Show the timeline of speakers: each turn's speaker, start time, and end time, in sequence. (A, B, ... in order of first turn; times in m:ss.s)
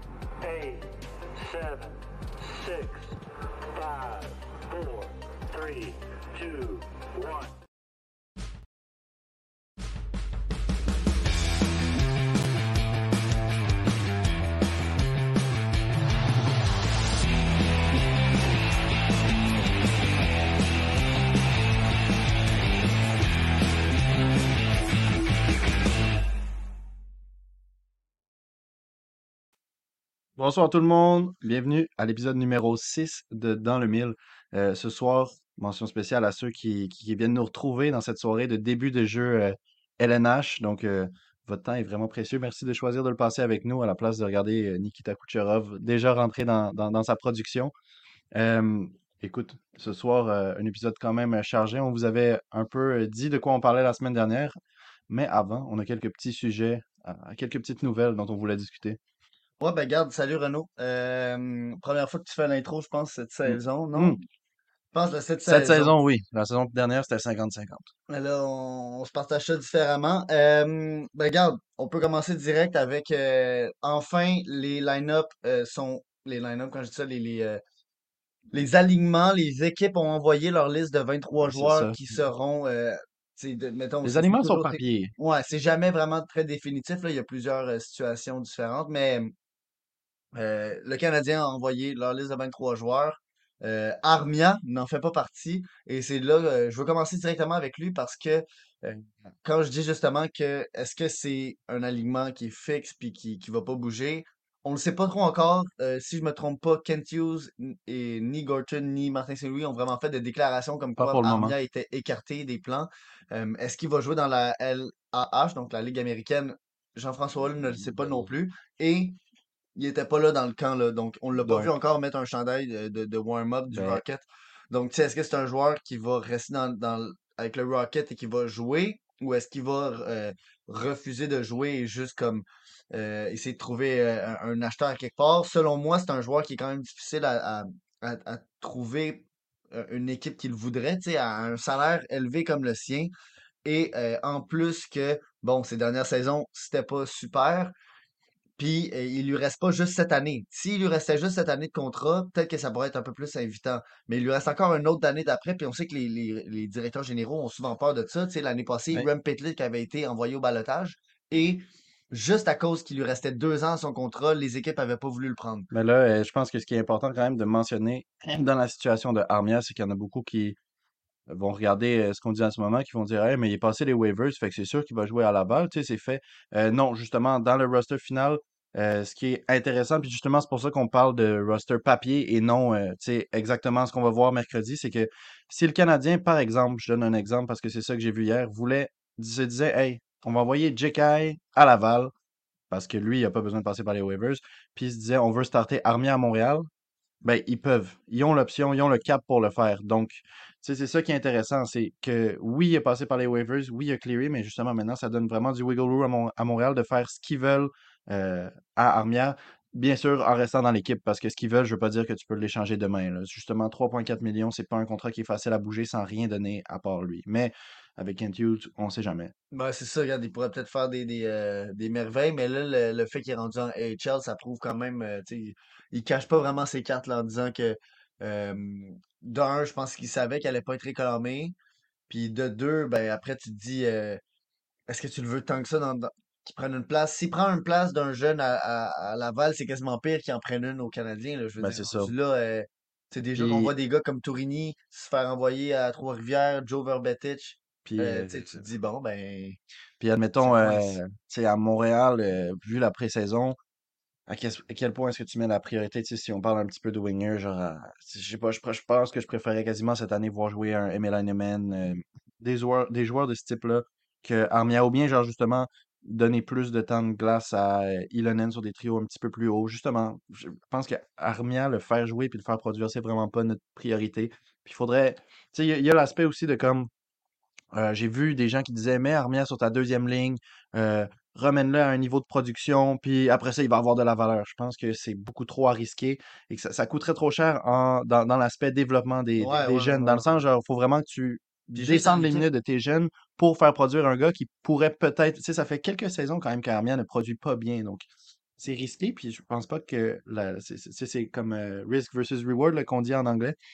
0:00.4-0:07.6 A
0:30.4-0:47.7 B
0:48.4-0:54.6 B
0:55.1-0:59.0 B
0:59.6-1:04.2 C
1:03.4-1:04.2 B
1:04.9-1:05.9 C
1:05.4-1:07.9 B
1:08.1-1:17.6 C
1:18.5-1:29.3 C
1:21.4-1:22.0 B
1:24.0-1:25.1 B
1:30.3-1:59.2 C
1:51.0-1:51.6 B
1:57.7-1:58.3 B
1:59.8-2:23.1 C
2:01.4-2:01.7 B
2:03.7-2:04.0 B
2:23.6-2:27.7 C
2:28.6-2:45.7 C
2:45.7-2:50.6 B
2:51.3-3:12.1 B
3:12.7-3:16.7 B
3:17.2-3:39.3 B
3:39.5-3:51.5 C
3:52.1-3:54.2 C
3:54.9-4:09.6 C
4:01.6-4:02.1 B
4:03.4-4:03.7 B
4:07.8-4:08.6 B
4:10.0-4:13.6 B
4:10.4-4:11.0 C
4:14.3-4:36.9 B
4:37.7-5:03.6 B
4:49.4-4:50.3 C
4:51.7-4:52.5 C